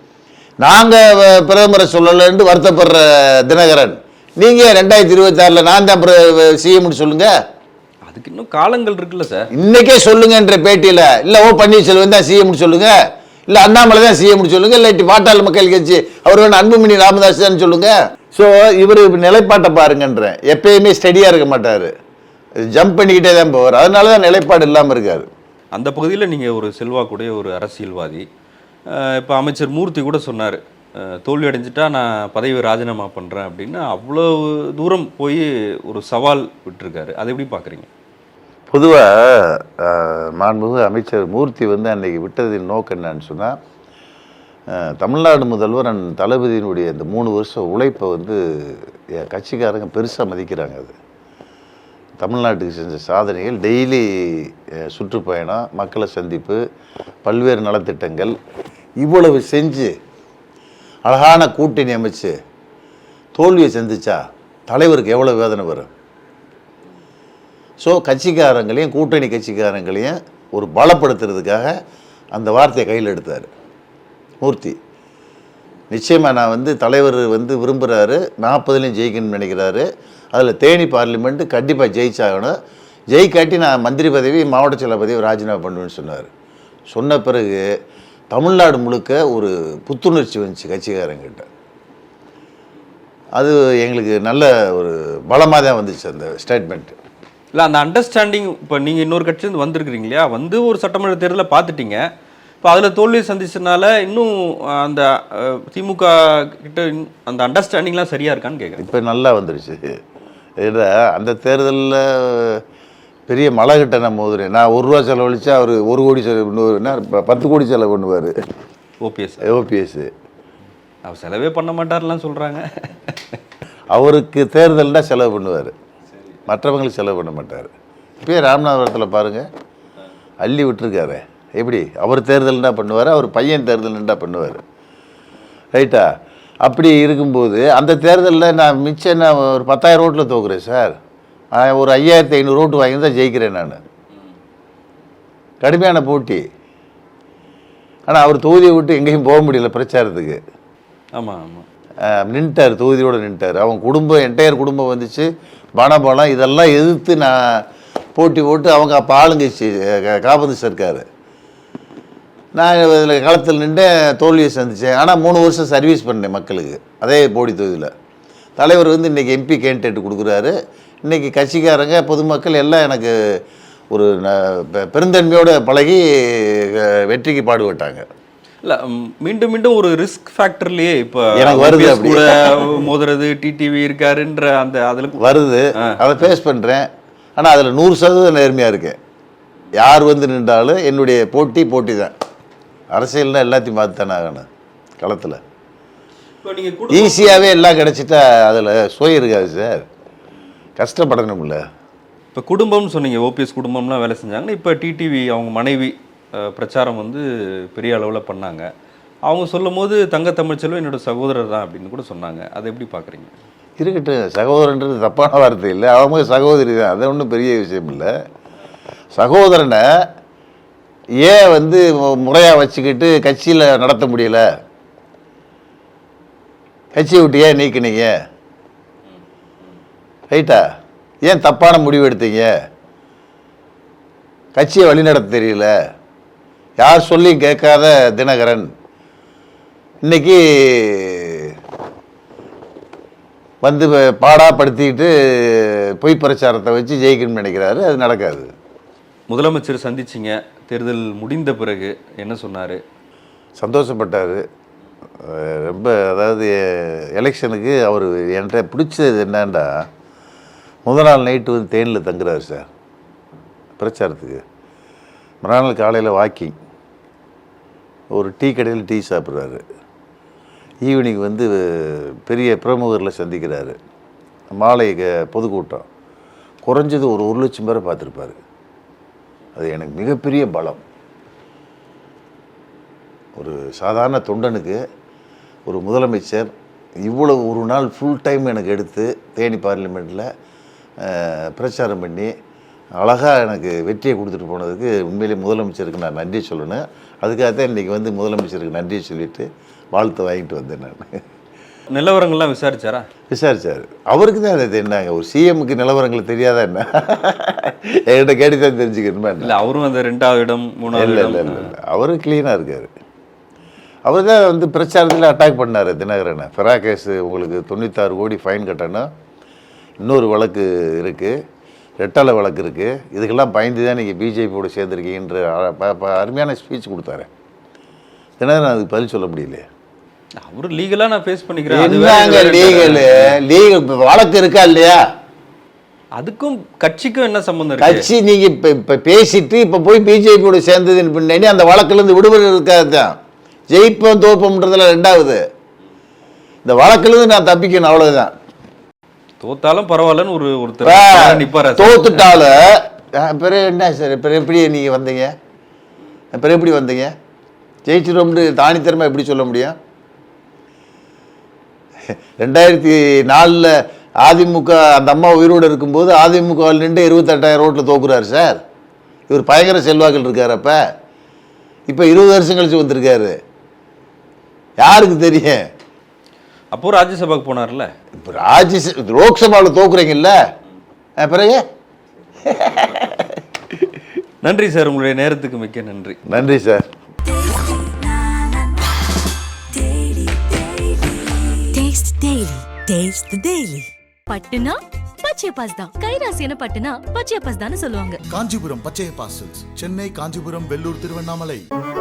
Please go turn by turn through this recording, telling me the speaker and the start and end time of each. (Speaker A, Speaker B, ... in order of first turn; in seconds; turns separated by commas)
Speaker A: 0.6-7.3, Speaker B: 8.1-9.5, Speaker A: 9.6-13.0, Speaker A: 13.5-21.9, Speaker A: 22.7-25.3, Speaker B: 25.7-28.2, Speaker B: 28.9-37.9, Speaker A: 38.7-43.6, Speaker A: 44.7-51.0, Speaker A: 52.2-56.6, Speaker A: 57.2-58.4, Speaker A: 59.0-60.0, Speaker A: 61.1-62.4, Speaker A: 63.4-65.9, Speaker A: 67.8-71.8, Speaker A: 72.3-73.5, Speaker A: 74.4-74.8, Speaker A: 75.9-82.6, Speaker A: 83.1-86.3, Speaker A: 86.9-87.7, Speaker A: 88.3-91.5, Speaker A: 93.4-97.0, Speaker B: 97.5-102.1, Speaker B: 102.6-108.8, Speaker A: 108.8-110.0, Speaker A: 110.6-112.6, Speaker A: 113.3-118.4, Speaker B: 119.0-119.5, Speaker A: 119.4-120.1, Speaker B: 121.1-123.4, Speaker A: 123.9-125.7, Speaker A: 126.5-129.5, Speaker A: 130.4-134.6, Speaker A: 135.8-136.1, Speaker A: 136.6-141.0, Speaker A: 141.6-143.8, Speaker A: 145.6-146.4, Speaker A: 148.1-150.4, Speaker B: 151.2-151.7, Speaker A: 152.1-157.6, Speaker A: 158.2-161.1, Speaker A: 162.6-167.9, Speaker A: 168.6-173.4, Speaker A: 173.9-178.1, Speaker B: 178.6-185.2, Speaker A: 181.4-182.8, Speaker A: 185.2-189.0, Speaker B: 185.8-186.0, Speaker A: 189.7-192.1, Speaker A: 192.9-194.5, Speaker A: 195.0-195.4, Speaker B: 196.4-197.6, Speaker A: 196.9-199.9, Speaker A: 200.8-201.6, Speaker B: 202.3-208.7, Speaker B: 209.3-213.3, Speaker A: 213.8-218.1, Speaker A: 219.1-220.1, Speaker A: 221.2-224.5, Speaker A: 226.9-228.2, Speaker A: 230.3-230.6, Speaker A: 231.2-232.5, Speaker A: 234.6-235.7, Speaker A: 236.8-238.7, Speaker A: 240.0-241.6, Speaker A: 243.6-248.5, Speaker B: 249.3-252.8, Speaker A: 253.6-254.4, Speaker A: 255.2-259.9, Speaker A: 260.9-262.7, Speaker A: 263.8-264.4, Speaker A: 265.4-266.6, Speaker A: 268.1-269.6, Speaker A: 270.8-273.8, Speaker A: 274.5-275.9, Speaker A: 276.6-278.4, Speaker A: 279.6-280.8, Speaker A: 283.4-284.8, Speaker A: 285.7-286.5, Speaker A: 287.0-290.3, Speaker A: 291.0-292.3, Speaker A: 293.0-301.2, Speaker B: 301.9-303.1, Speaker A: 303.3-309.5, Speaker B: 309.4-311.7, Speaker A: 310.9-312.9, Speaker A: 314.1-319.1, Speaker A: 320.0-321.4, Speaker A: 322.0-327.3, Speaker A: 328.4-329.7, Speaker B: 330.4-333.4, Speaker A: 331.7-335.0, Speaker B: 336.2-338.1, Speaker A: 337.8-343.2, Speaker A: 343.7-345.4, Speaker A: 346.6-348.3, Speaker B: 349.4-352.4, Speaker A: 350.8-355.4, Speaker A: 356.3-357.1, Speaker A: 357.9-359.8, Speaker A: 362.1-368.6, Speaker A: 369.3-370.8, Speaker A: 371.9-373.4, Speaker A: 374.8-375.6, Speaker B: 376.7-377.9, Speaker A: 378.2-380.4, Speaker A: 381.2-381.6, Speaker A: 382.4-383.4, Speaker B: 384.4-386.2, Speaker A: 386.3-386.8, Speaker C: 387.2-398.2, Speaker D: 398.3-401.7